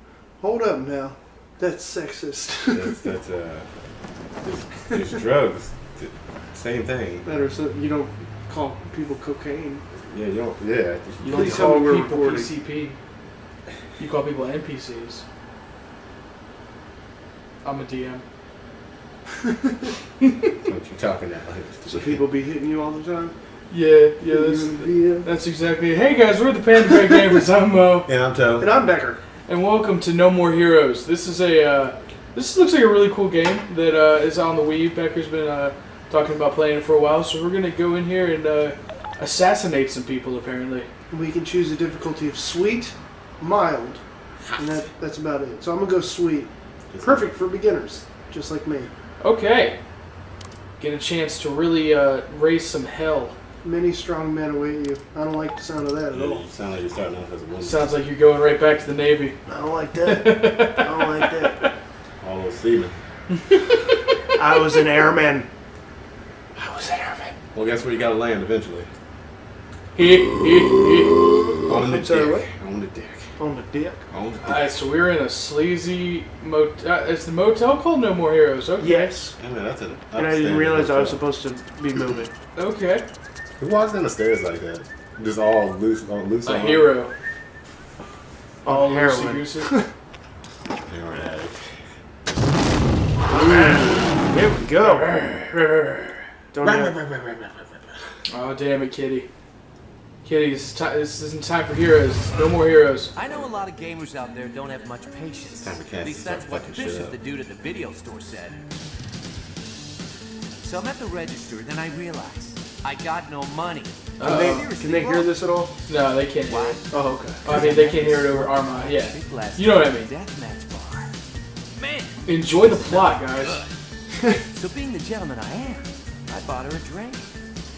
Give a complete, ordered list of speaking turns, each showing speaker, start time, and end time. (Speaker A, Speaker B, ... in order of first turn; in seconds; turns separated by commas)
Speaker A: 0.4-3.1, Speaker B: 2.7-3.8, Speaker B: 4.4-7.3, Speaker A: 7.2-9.8, Speaker B: 9.9-11.7, Speaker C: 11.2-13.0, Speaker A: 11.2-12.5, Speaker C: 14.0-15.2, Speaker C: 17.6-18.2, Speaker B: 20.6-22.2, Speaker A: 21.9-23.3, Speaker C: 23.7-28.1, Speaker A: 24.3-25.3, Speaker B: 28.1-28.7, Speaker A: 28.6-29.2, Speaker C: 29.5-40.9, Speaker A: 41.1-44.0, Speaker A: 44.5-48.9, Speaker B: 46.9-47.4, Speaker C: 49.2-49.8, Speaker C: 50.8-53.3, Speaker A: 53.6-56.5, Speaker B: 56.1-57.9, Speaker C: 57.6-59.4, Speaker A: 59.5-61.7, Speaker C: 60.0-61.7, Speaker B: 62.2-62.9, Speaker C: 63.5-63.9, Speaker A: 64.3-65.5, Speaker A: 66.5-67.3, Speaker B: 67.5-68.9, Speaker C: 69.9-71.4, Speaker B: 71.7-73.4, Speaker A: 71.7-72.5, Speaker A: 73.4-74.0, Speaker B: 74.1-74.7, Speaker C: 74.4-79.1, Speaker A: 78.8-79.3, Speaker B: 79.4-81.2, Speaker A: 80.1-82.3, Speaker C: 82.5-83.0, Speaker B: 83.6-86.9, Speaker C: 86.4-87.1, Speaker C: 88.6-89.7, Speaker A: 88.6-89.9, Speaker B: 90.8-91.7, Speaker A: 93.3-95.2, Speaker C: 94.8-96.2, Speaker A: 96.5-97.0, Speaker B: 96.6-98.0, Speaker C: 98.3-99.3, Speaker C: 100.2-103.1, Speaker D: 103.1-108.6, Speaker B: 105.6-107.2, Speaker D: 110.6-115.3, Speaker C: 114.2-114.7, Speaker A: 114.2-115.7, Speaker C: 115.9-120.1, Speaker D: 116.5-116.9, Speaker A: 116.9-117.7, Speaker D: 117.4-121.1, Speaker D: 121.7-123.7, Speaker C: 122.2-123.6, Speaker D: 124.5-127.3